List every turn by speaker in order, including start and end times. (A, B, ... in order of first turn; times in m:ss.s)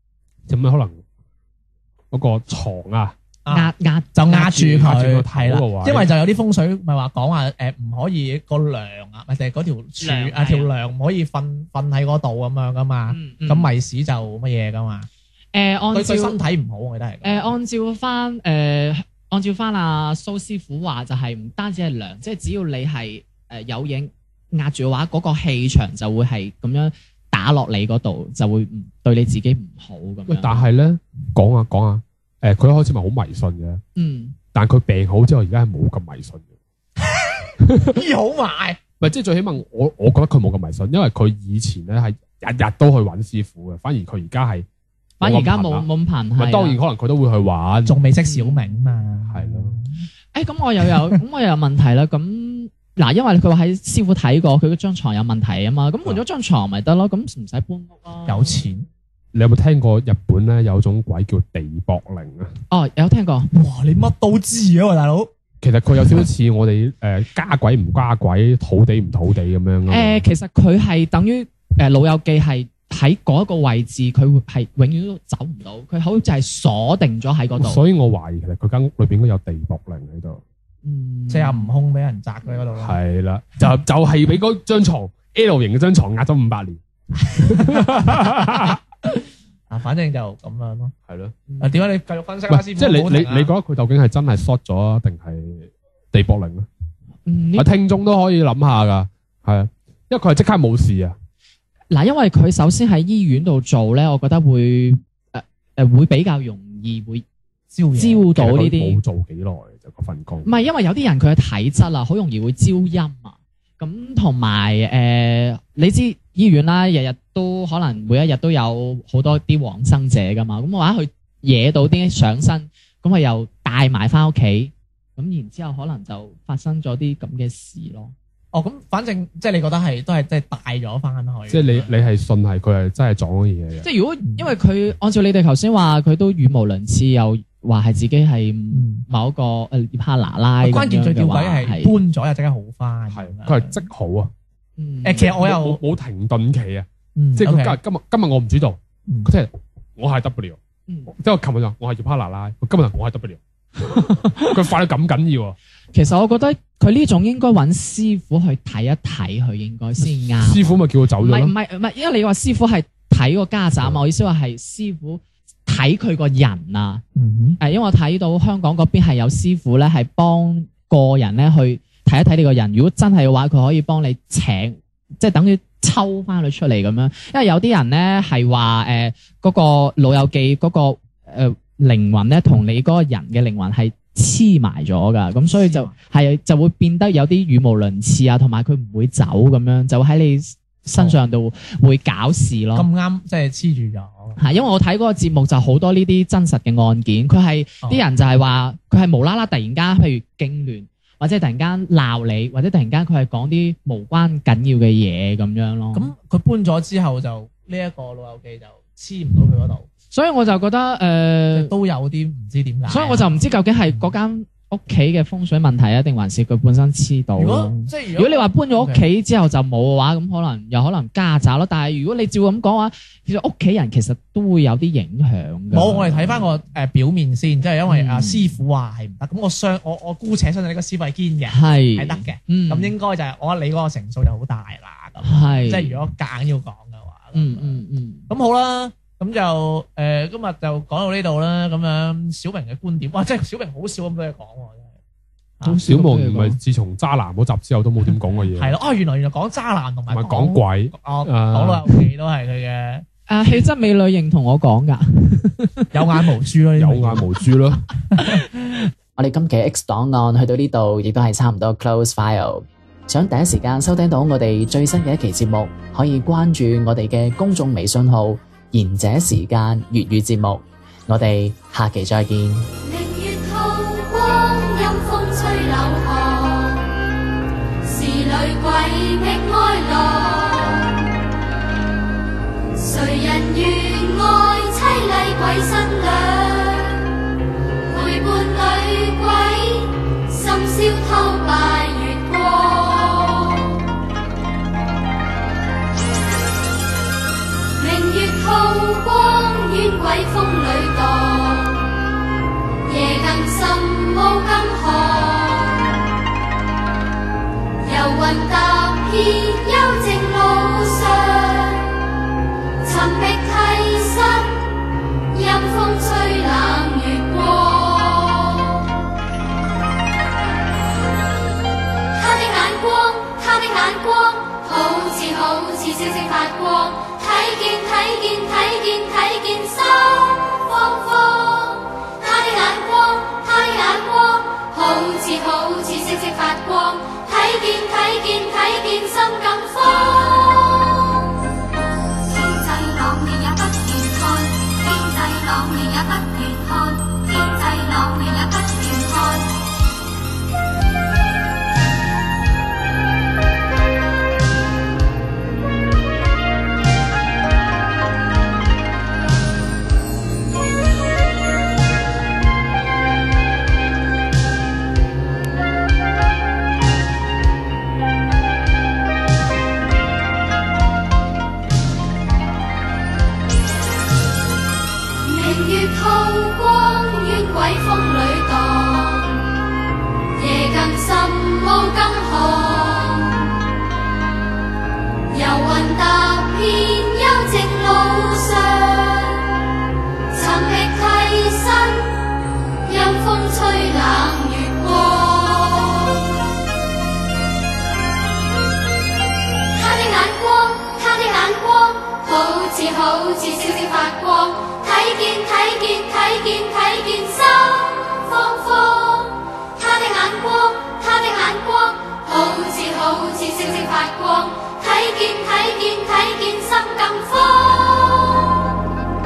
0:00.5-0:01.0 A
0:02.1-0:03.2 A
0:03.4-0:15.1 B
0:03.5-0:04.9 C
0:04.8-0:06.1 A
0:10.0-0:10.7 C
0:13.1-0:13.7 C
0:15.5-0:16.4 C
0:15.9-0:17.5 B
0:17.2-0:30.6 C
0:30.3-0:33.8 A
0:34.0-0:34.4 C
0:34.5-0:36.5 A
0:37.1-0:38.8 B
0:37.6-0:38.0 A
0:39.0-0:44.7 A
0:45.2-0:46.8 C
0:45.2-0:45.9 A
0:46.4-0:48.0 A
0:47.9-0:50.1 B
0:48.2-0:48.9 C
0:49.3-0:49.8 A
0:50.3-0:58.6 C
0:58.3-0:58.9 B
0:59.3-1:02.5 A
1:02.7-1:03.5 C
1:03.5-1:05.3 B
1:05.6-1:10.3 A
1:09.9-1:17.8 C
1:17.6-1:20.4 A
1:20.8-1:21.7 C
1:21.3-1:23.0 B
1:22.8-1:26.8 A
1:27.2-1:27.8 B
1:27.3-1:28.8 A
1:29.7-1:30.9 B
1:31.1-1:31.4 A
1:31.6-1:33.5 B
1:32.5-1:36.7 A
1:37.3-1:37.7 C
1:37.6-1:41.2 A
1:41.9-1:47.2 C
1:47.7-1:48.3 B
1:47.9-1:49.0 C
1:48.3-1:50.6 A
1:50.4-2:08.1 C
2:08.5-2:11.9 B
2:11.5-2:13.9 A
2:13.8-2:21.9 C
2:14.2-2:14.5 B
2:18.7-2:19.0 B
2:20.6-2:23.9 B
2:23.1-2:24.3 A
2:24.8-2:25.3 C
2:25.0-2:25.8 B
2:25.2-2:30.6 A
2:27.2-2:27.8 B
2:30.9-2:31.1 C
2:31.1-2:33.4 A
2:33.9-2:34.6 C
2:34.0-2:35.6 A
2:35.9-2:47.0 C
2:40.0-2:41.5 A
2:47.2-2:47.6 B
2:47.6-3:12.9 C
3:05.5-3:05.9 B
3:10.9-3:11.2 B
3:12.8-3:14.4 B
3:14.4-3:26.1 C
3:25.9-3:29.9 B
3:30.1-3:31.7 C
3:31.5-3:33.3 B
3:32.9-3:46.5 C
3:37.4-3:39.0 B
3:45.7-4:04.9 B
3:47.9-3:48.5 C
3:51.5-3:53.0 C
3:55.2-3:56.0 C
3:57.3-3:58.3 C
4:05.6-4:06.6 C
4:05.9-4:08.8 A
4:08.6-4:13.7 B
4:10.1-4:11.9 A
4:13.3-4:16.2 C
4:15.9-4:17.3 B
4:16.8-4:17.8 A
4:18.1-4:18.5 B
4:18.2-4:18.5 C
4:19.2-4:32.7 D
4:32.8-4:36.9 E
4:37.8-4:41.1 E
4:42.8-4:47.0 E
4:47.9-4:53.8 E
4:57.8-5:01.9 E
5:02.8-5:06.0 E
5:07.8-5:11.9 E
5:12.8-5:14.7 E
5:15.3-5:18.8 E
5:22.1-5:41.2 E
5:42.2-5:49.6 E
6:15.2-6:19.5 E
6:20.4-6:23.6 E
6:25.3-6:29.4 E
6:30.3-6:32.2 E
6:32.8-6:36.3 E
6:39.7-6:58.6 E